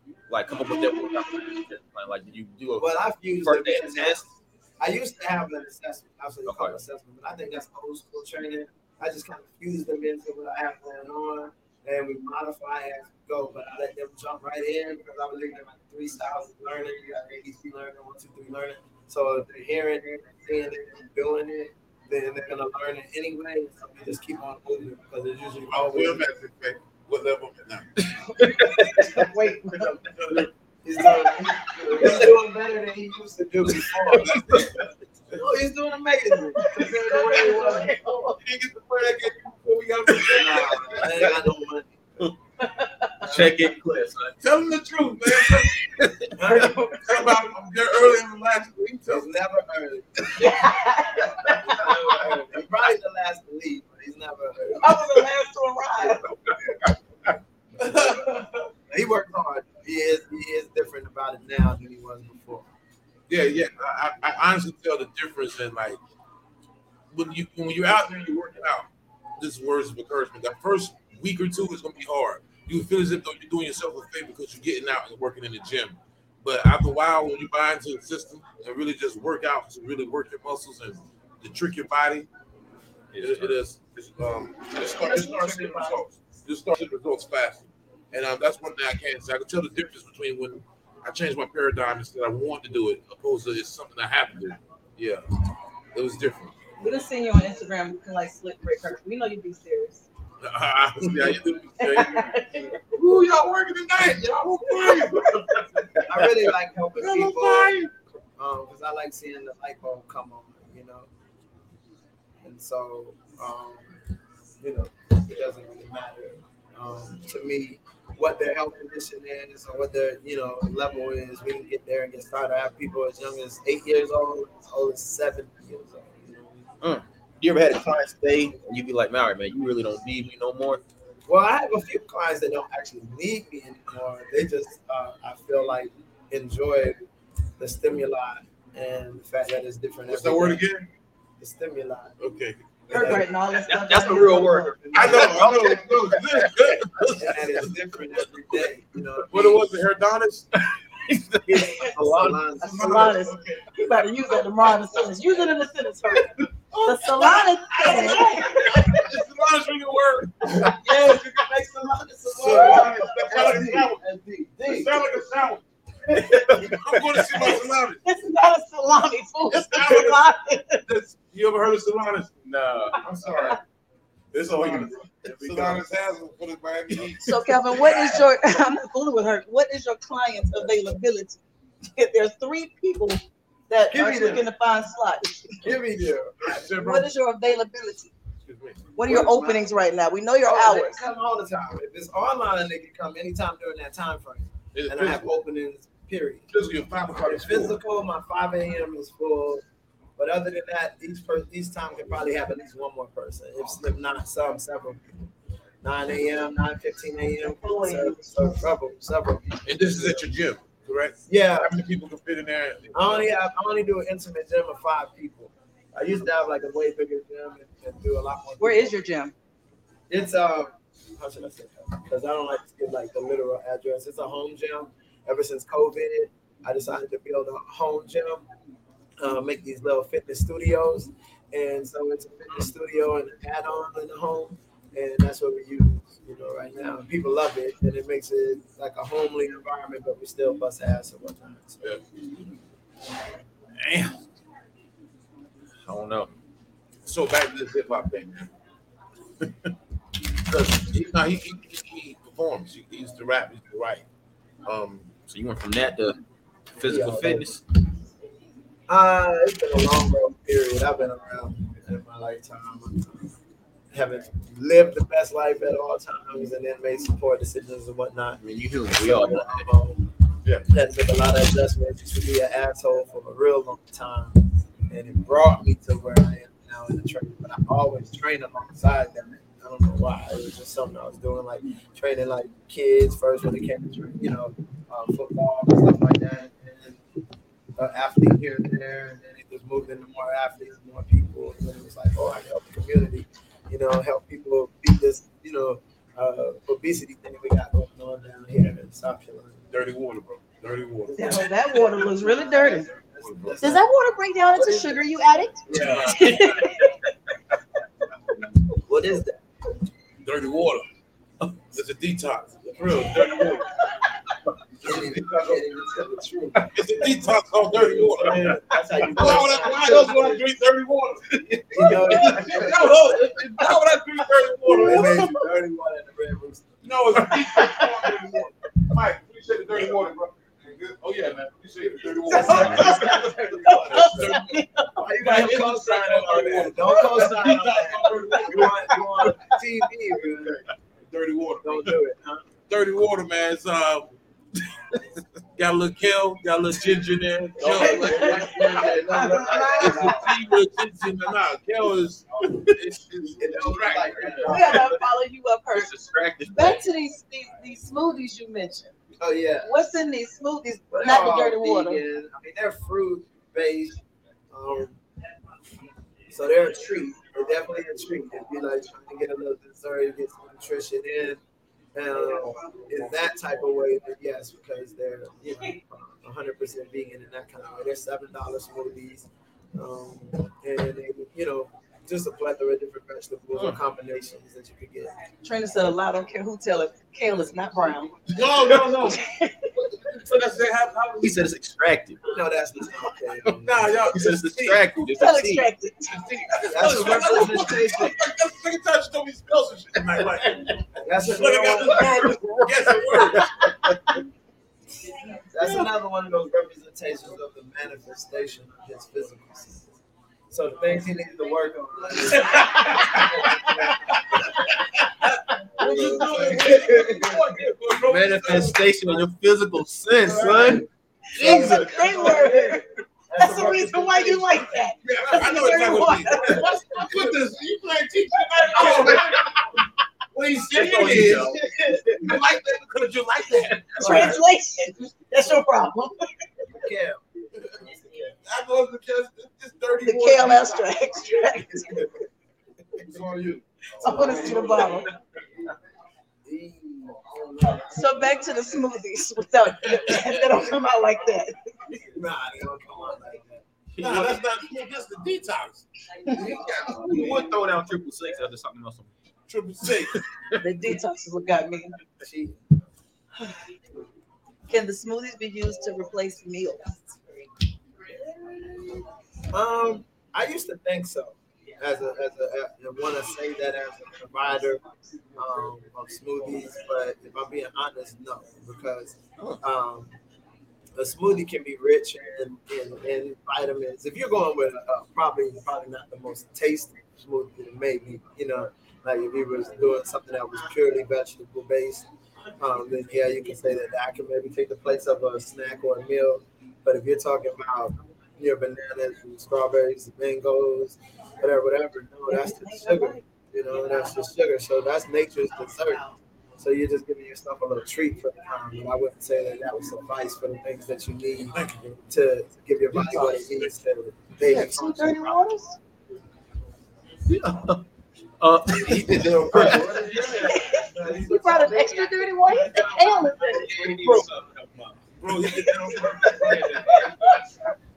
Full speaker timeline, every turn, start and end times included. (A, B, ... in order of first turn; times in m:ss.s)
0:00.3-0:04.2 A
0:02.8-0:26.2 B
0:06.4-0:06.8 A
0:25.7-0:27.9 C
0:28.4-0:29.2 A
0:28.4-0:30.0 D
0:30.2-0:30.5 C
0:30.8-0:34.7 B
0:33.8-0:34.8 A
0:34.2-0:34.8 C
0:35.3-0:38.0 B
0:36.6-0:38.4 D
0:38.3-0:41.2 C
0:40.1-0:41.9 B
0:42.6-0:43.1 D
0:43.2-0:43.7 B
0:43.2-0:44.4 A
0:44.4-0:45.8 C
0:46.0-0:46.2 A
0:46.4-0:46.9 B
0:46.4-0:47.3 D
0:47.0-0:49.3 C
0:49.1-0:50.7 B
0:50.4-0:51.8 D
0:51.4-0:55.2 B
0:51.9-0:52.3 C
0:54.8-0:56.2 D
0:57.8-0:58.3 B
0:57.8-0:58.2 C
0:58.9-1:02.7 B
1:03.3-1:06.0 C
1:07.1-1:22.3 C
1:23.1-1:23.6 A
1:23.2-1:35.2 C
1:24.8-1:26.0 B
1:35.9-1:36.5 C
1:36.8-1:40.0 D
1:40.4-1:42.3 C
1:41.8-1:42.8 D
1:42.9-1:45.8 C
1:44.9-1:45.6 D
1:46.0-1:47.8 B
1:47.0-1:47.9 C
1:48.4-1:51.1 B
1:52.4-1:53.9 B
1:54.6-2:06.6 B
2:06.8-2:10.8 A
2:11.3-2:17.0 B
2:17.6-2:20.7 B
2:20.1-2:20.9 C
2:21.4-2:22.2 B
2:22.2-2:23.2 C
2:22.9-2:23.2 B
2:22.9-2:24.7 D
2:23.5-2:27.5 A
2:24.2-2:25.8 B
2:24.9-2:27.3 C
2:27.1-2:29.6 B
2:29.3-2:30.6 C
2:31.1-2:32.4 A
2:31.4-2:33.2 B
2:32.6-2:33.7 C
2:32.6-2:36.3 D
2:36.8-2:40.9 C
2:36.8-2:38.7 D
2:37.7-2:38.4 B
2:40.6-2:45.0 B
2:42.3-2:44.0 C
2:44.6-2:45.6 C
2:46.3-2:46.7 B
2:46.3-2:47.1 A
2:46.5-2:48.0 C
2:47.4-2:50.8 D
2:49.5-2:50.2 C
2:50.8-2:53.6 C
2:52.4-2:53.0 A
2:54.3-2:58.2 C
2:54.5-2:55.7 A
2:55.4-2:55.8 B
2:57.2-3:01.4 D
3:01.9-3:05.7 D
3:03.9-3:04.5 B
3:05.6-3:06.6 B
3:05.9-3:07.1 C
3:06.7-3:08.1 D
3:08.4-3:08.9 C
3:09.0-3:09.7 B
3:09.0-3:11.0 D
3:10.4-3:16.5 B
3:14.7-3:15.3 C
3:16.5-3:17.8 C
3:17.1-3:19.6 B
3:20.2-3:30.3 B
3:27.4-3:28.7 D
3:29.6-3:33.3 C
3:31.3-3:31.8 B
3:32.9-3:39.0 B
3:38.6-3:39.3 D
3:40.1-3:48.4 B
3:49.2-4:01.8 B
4:03.8-4:04.1 C
4:05.8-4:06.3 A
4:07.0-4:08.5 C
4:10.5-4:14.0 C
4:14.6-4:15.1 C
4:15.3-4:16.2 A
4:16.8-4:17.6 A
4:16.8-4:17.6 B
4:18.9-4:23.4 B
4:23.9-4:30.0 B
4:28.4-4:29.6 A
4:30.7-4:47.0 B
4:47.8-4:59.7 B
4:59.7-5:01.8 C
5:01.1-5:02.9 D
5:01.1-5:03.9 B
5:03.2-5:03.6 C
5:03.6-5:05.6 E
5:04.5-5:05.0 B
5:05.6-5:06.2 B
5:05.7-5:06.6 C
5:05.7-5:06.9 A
5:06.1-5:06.8 D
5:08.8-5:09.4 B
5:10.2-5:10.8 C
5:11.7-5:13.8 C
5:13.2-5:13.6 D
5:14.8-5:15.7 C
5:14.8-5:17.1 B
5:16.7-5:18.5 C
5:17.7-5:20.4 B
5:19.1-5:25.4 C
5:21.3-5:22.6 A
5:21.7-5:23.2 B
5:24.6-5:26.8 B
5:26.8-5:39.5 C
5:27.6-5:27.8 D
5:32.2-5:34.3 B
5:32.3-5:34.9 D
5:35.0-5:40.6 B
5:38.3-5:38.7 D
5:40.4-5:42.0 C
5:41.6-5:42.5 B
5:42.7-5:44.2 C
5:45.6-5:55.0 C
5:47.6-5:50.4 B
5:47.7-5:50.3 D
5:53.3-5:54.9 B
5:54.5-5:55.9 D
5:55.7-5:56.8 A
5:56.5-5:58.9 D
5:59.2-5:59.7 B
5:59.6-6:02.0 D
6:00.9-6:05.0 B
6:06.3-6:11.4 B
6:11.9-6:25.1 B
6:12.3-6:12.9 D
6:25.4-6:28.2 D
6:28.3-6:29.2 C
6:29.0-6:29.7 D
6:29.8-6:31.5 C
6:31.2-6:32.2 A
6:32.3-6:34.1 B
6:33.6-6:34.8 C
6:34.1-6:35.7 A
6:35.1-6:36.2 D
6:36.1-6:43.8 C
6:36.7-6:38.2 B
6:40.2-6:40.7 A
6:41.0-6:42.2 B
6:41.8-6:44.0 A
6:45.5-6:49.9 B
6:50.5-6:54.5 B
6:52.5-6:53.3 C
6:52.6-6:53.3 D
6:55.0-6:58.8 C
6:55.8-6:57.4 B
6:55.8-6:57.0 D
6:58.0-6:59.1 B
6:58.0-7:00.8 A
7:00.2-7:04.9 B
7:01.4-7:02.5 C
7:01.4-7:02.8 D
7:03.4-7:06.7 D
7:05.0-7:09.8 C
7:06.2-7:07.4 B
7:08.7-7:09.2 D
7:08.8-7:09.2 B
7:10.3-7:14.4 C
7:10.5-7:11.6 A
7:10.9-7:12.3 B
7:14.0-7:14.4 B
7:14.0-7:16.1 D
7:16.7-7:17.2 B
7:17.8-7:18.3 B
7:18.4-7:21.6 C
7:20.0-7:22.1 D
7:21.8-7:22.1 B
7:23.0-7:24.9 C
7:24.0-7:25.1 D
7:24.0-7:25.0 B
7:26.4-7:28.6 B
7:27.9-7:32.0 D
7:32.1-7:33.6 B
7:33.9-7:34.4 A
7:34.0-7:37.5 C
7:36.2-7:37.6 B
7:36.8-7:39.1 A
7:39.5-7:40.2 C
7:40.6-7:41.9 D
7:42.2-7:42.6 B
7:44.7-7:47.2 D
7:49.5-7:54.8 B
7:55.4-8:00.1 B
8:01.0-8:12.1 B
8:12.6-8:26.0 B
8:22.3-8:23.2 D
8:25.9-8:26.1 D
8:26.6-8:35.5 B
8:31.5-8:32.0 C
8:32.9-8:33.7 C
8:34.4-8:35.8 D
8:37.3-8:37.8 A
8:38.4-8:40.4 A
8:38.8-8:40.5 C
8:39.5-8:44.0 B
8:40.5-8:43.6 D
8:41.3-8:43.6 E
8:43.2-8:45.0 A
8:45.2-8:46.6 C
8:45.6-8:47.4 D
8:46.2-8:47.4 A